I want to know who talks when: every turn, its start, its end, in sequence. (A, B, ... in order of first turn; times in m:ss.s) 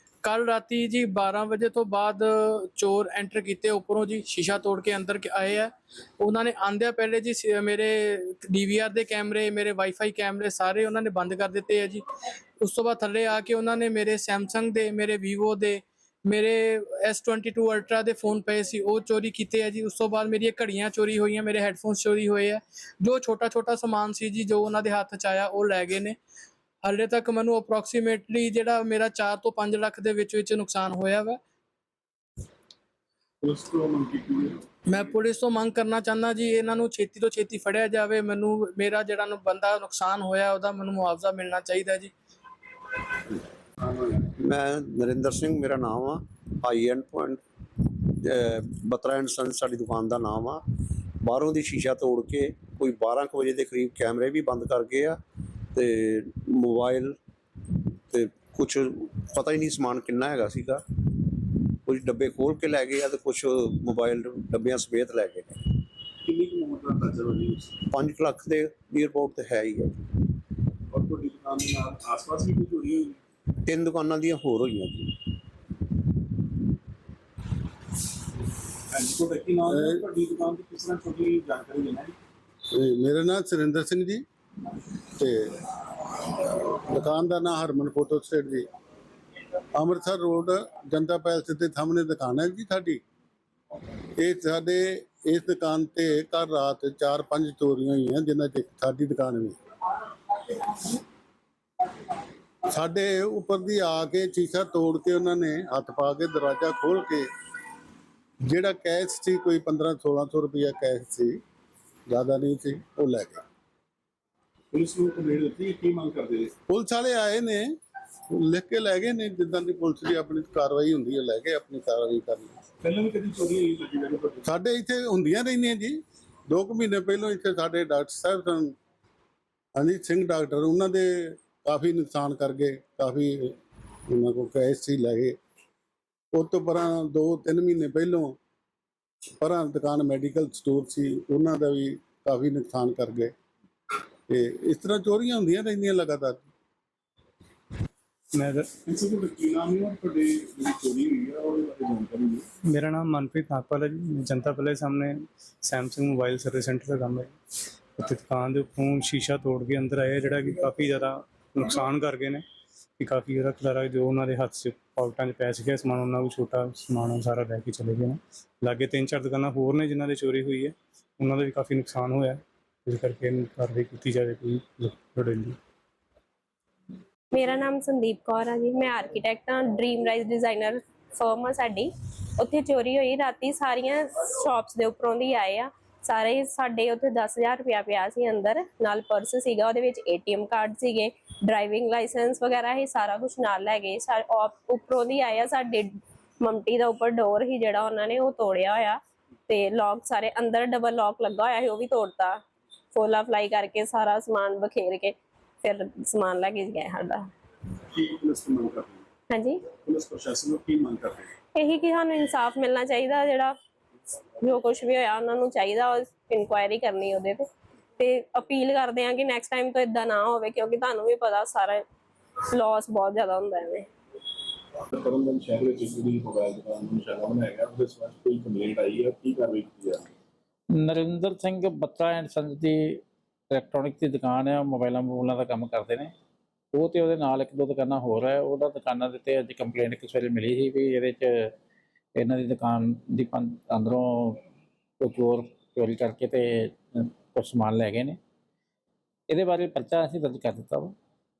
0:00.2-0:12.0 A
0:12.6-0:26.2 A
0:26.8-0:31.4 A
0:33.4-0:35.2 B
0:34.9-0:42.1 A
0:43.8-0:44.3 B
0:44.4-0:47.4 C
0:48.2-0:50.6 C
0:51.2-0:55.2 C
0:55.8-0:57.2 C
0:58.1-1:00.8 C
1:01.9-1:05.6 C
1:06.2-1:07.8 B
1:07.9-1:10.0 C
1:10.9-1:13.2 B
1:13.6-1:15.1 C
1:18.9-1:22.2 B
1:19.7-1:20.0 D
1:22.7-1:24.2 D
1:25.1-1:25.7 D
1:26.3-1:28.6 D
1:29.8-1:33.0 D
1:34.2-1:39.6 D
1:42.7-1:47.3 D
1:48.5-1:51.4 D
1:52.1-1:53.4 D
1:54.7-1:56.5 B
1:56.7-1:57.7 D
1:58.3-2:02.6 D
2:02.8-2:04.5 B
2:04.5-2:06.0 D
2:06.5-2:08.7 D
2:09.8-2:13.5 D
2:14.1-2:15.4 D
2:16.3-2:18.4 D
2:19.4-2:23.3 D
2:24.3-2:26.4 D
2:28.4-2:28.7 E
2:28.9-2:32.5 B
2:32.7-2:37.3 E
2:38.0-2:42.4 E
2:43.0-2:55.6 E
2:57.3-3:27.3 F
3:27.9-3:29.1 B
3:29.3-3:29.6 F
3:29.8-3:31.3 B
3:31.6-3:33.5 F
3:34.4-3:37.5 F
3:38.0-3:41.8 F
3:42.5-3:43.9 F
3:44.9-3:50.0 B
3:50.8-3:56.1 G
3:56.7-4:01.5 G
4:02.2-4:04.4 G
4:05.0-4:08.2 G
4:09.3-4:10.9 G